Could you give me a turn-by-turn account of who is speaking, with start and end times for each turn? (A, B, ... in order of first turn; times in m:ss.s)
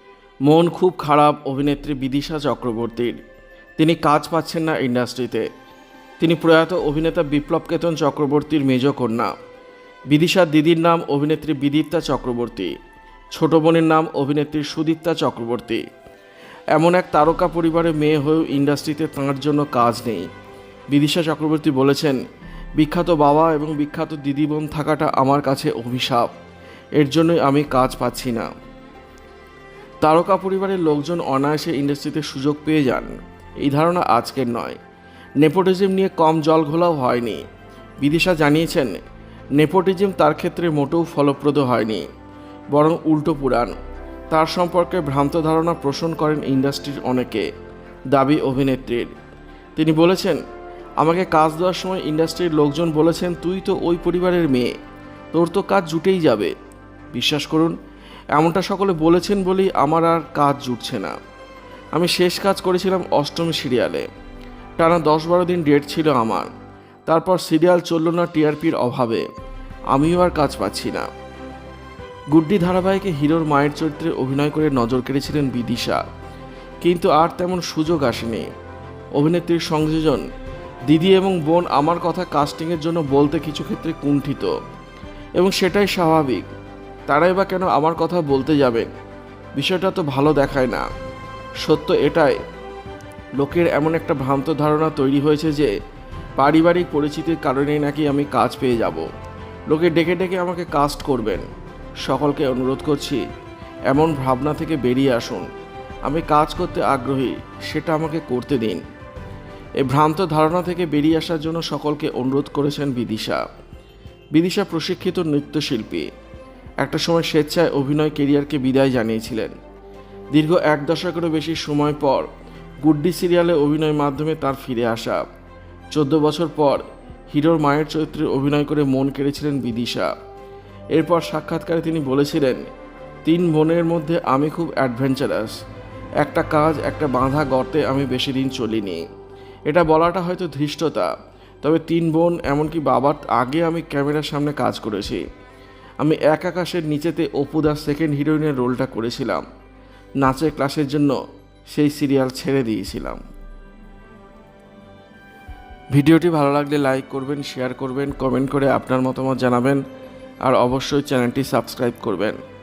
0:00.5-0:03.2 A
0:03.8-0:05.5 A
0:06.2-0:09.3 A
0:10.1-0:12.8 A
0:13.4-0:15.8 A
0:16.7-0:20.3 A
0:20.9-0:22.2 A
0:22.8-0:26.3 A
0:27.0-0:28.5 A
0:30.0-0:34.8 A
0:35.4-0:37.4 A
0:38.0-0:39.0 A
0:39.6-0:42.0 A
0:42.7-0:43.8 A
0:44.3-0:47.5 A
0:48.1-0:49.1 A
0:49.8-0:50.4 A
0:51.0-0:54.7 A
0:55.3-0:56.5 A
0:57.1-0:57.8 A
0:58.3-1:01.1 A
1:01.9-1:04.1 A
1:04.8-1:06.5 A
1:07.1-1:09.3 A
1:09.9-1:11.1 A
1:12.3-1:16.0 A
1:16.8-1:18.5 A
1:19.2-1:20.2 A
1:20.9-1:24.5 A
1:25.4-1:26.5 A
1:27.1-1:28.9 A
1:29.6-1:30.8 A
1:31.6-1:32.4 A
1:33.4-1:35.7 A
1:36.4-1:39.1 A
1:39.7-1:41.5 A
1:42.0-1:43.2 A
1:43.9-1:45.5 A
1:46.1-1:48.8 A
1:49.8-1:53.4 A
1:54.3-1:56.1 A
1:56.8-1:59.5 A
2:00.3-2:02.3 A
2:02.8-2:05.2 A
2:05.9-2:10.1 A
2:11.0-2:12.6 A
2:13.2-2:15.5 A
2:16.2-2:19.0 A
2:19.7-2:21.1 A
2:21.6-2:25.2 A
2:26.0-2:29.4 A
2:30.2-2:31.2 A
2:31.7-2:33.2 A
2:35.9-2:39.8 A
2:40.4-2:42.4 A